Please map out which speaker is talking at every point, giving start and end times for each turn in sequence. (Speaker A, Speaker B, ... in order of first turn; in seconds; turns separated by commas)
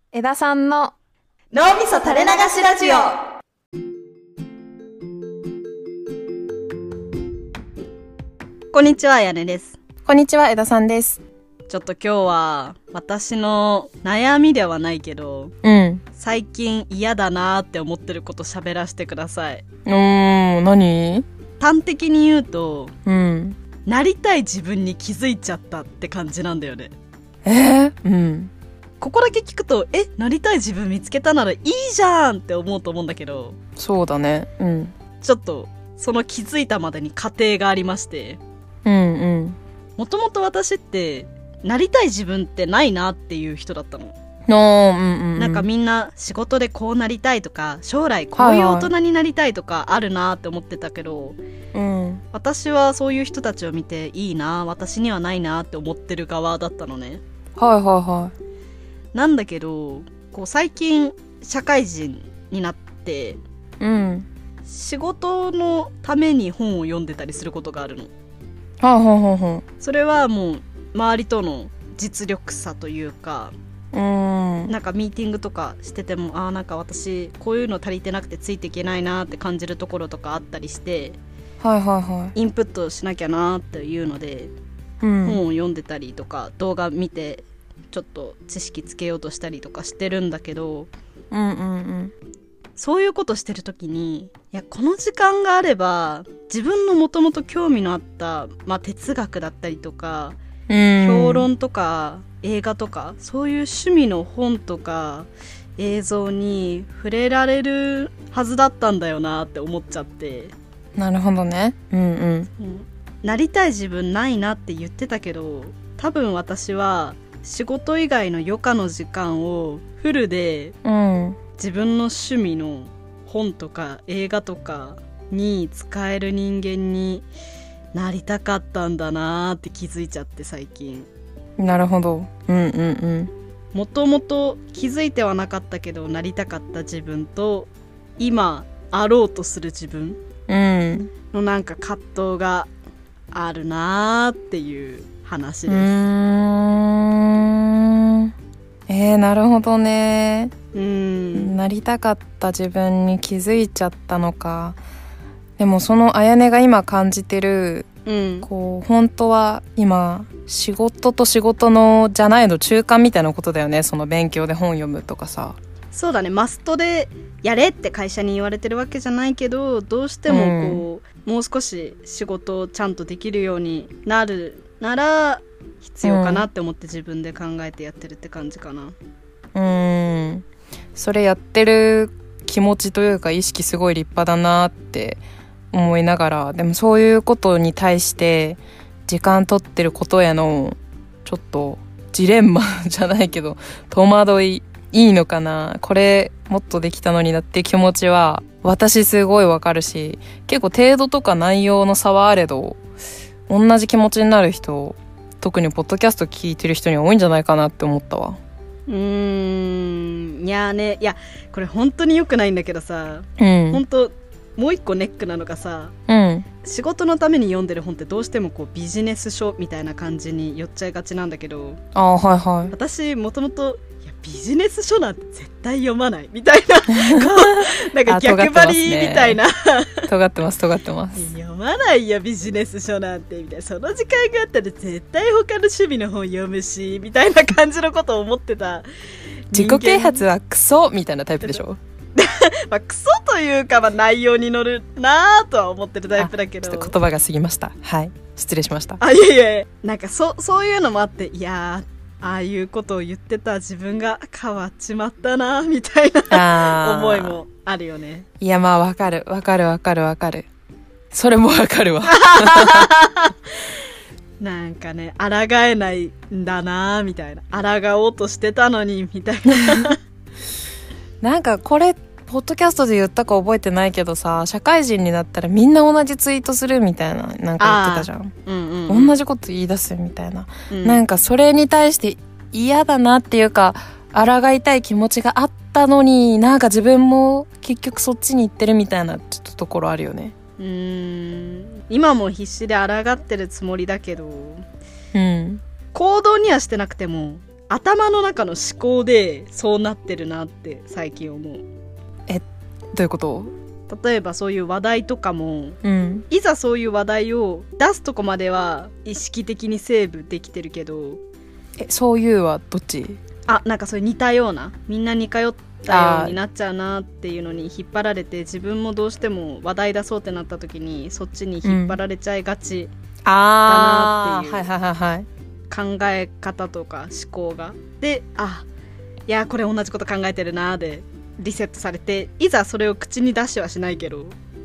Speaker A: 0.1-0.9, Speaker B: 1.5-3.2, Speaker B: 8.7-9.8, Speaker A: 10.1-11.2, Speaker B: 11.7-15.5, Speaker A: 15.6-16.0, Speaker B: 16.1-19.6, Speaker A: 19.9-21.2, Speaker B: 21.6-22.9, Speaker A: 23.1-23.6, Speaker B: 23.9-26.9, Speaker A: 27.4-28.5, Speaker B: 29.0-33.6, Speaker A: 33.8-34.9, Speaker B: 35.2-38.4, Speaker A: 38.9-39.6, Speaker B: 40.0-44.1, Speaker A: 44.5-45.7, Speaker B: 45.4-51.4, Speaker A: 48.4-48.9, Speaker A: 51.7-52.2, Speaker B: 52.3-57.2, Speaker A: 57.6-58.3, Speaker B: 59.1-63.4, Speaker A: 63.8-64.3, Speaker B: 64.7-68.1, Speaker A: 68.8-69.6, Speaker B: 69.8-73.5, Speaker A: 73.9-74.7, Speaker B: 74.7-81.2, Speaker A: 81.6-82.3, Speaker B: 82.3-84.5, Speaker A: 85.0-85.4, Speaker B: 85.2-90.9, Speaker A: 91.3-92.1, Speaker B: 92.8-100.4, Speaker A: 100.7-101.5, Speaker B: 101.0-110.5, Speaker A: 111.0-112.5, Speaker B: 112.6-120.7, Speaker A: 120.8-121.4, Speaker B: 121.6-127.3, Speaker B: 127.9-131.1, Speaker A: 131.6-133.3, Speaker B: 133.7-140.2, Speaker A: 140.5-141.1, Speaker B: 141.3-142.7, Speaker B: 143.3-146.0, Speaker A: 145.7-148.3, Speaker A: 148.9-150.5, Speaker B: 150.7-151.6, Speaker A: 151.3-154.8, Speaker A: 155.6-157.9, Speaker B: 158.1-158.5, Speaker A: 158.4-165.6, Speaker B: 165.9-178.9, Speaker A: 170.3-170.8, Speaker A: 176.0-176.4, Speaker A: 179.5-185.2, Speaker A: 185.7-202.8, Speaker A: 203.5-208.4, Speaker B: 208.9-215.9, Speaker A: 213.4-213.8, Speaker A: 216.1-216.4, Speaker B: 216.6-221.8, Speaker A: 221.9-222.7, Speaker B: 222.7-230.1, Speaker A: 227.0-229.4, Speaker A: 230.1-231.3, Speaker B: 231.2-238.8, Speaker B: 239.5-240.3, Speaker A: 239.5-241.8, Speaker B: 242.2-246.9, Speaker A: 246.2-249.0, Speaker B: 249.0-258.2, Speaker A: 256.3-257.4, Speaker A: 258.4-260.5, Speaker A: 261.1-262.9, Speaker B: 262.1-263.3, Speaker B: 264.4-270.0, Speaker A: 271.2-278.3, Speaker B: 277.6-279.2, Speaker A: 278.9-290.3, Speaker B: 280.7-281.0, Speaker B: 290.6-294.6, Speaker A: 295.1-295.6, Speaker B: 295.9-301.6, Speaker A: 302.3-303.5, Speaker B: 303.9-311.2, Speaker A: 305.8-306.2, Speaker A: 311.8-313.2, Speaker B: 313.5-322.9, Speaker A: 315.9-316.4, Speaker A: 321.6-322.0, Speaker A: 323.2-325.2, Speaker B: 323.6-324.6, Speaker B: 325.7-328.7, Speaker B: 329.3-334.4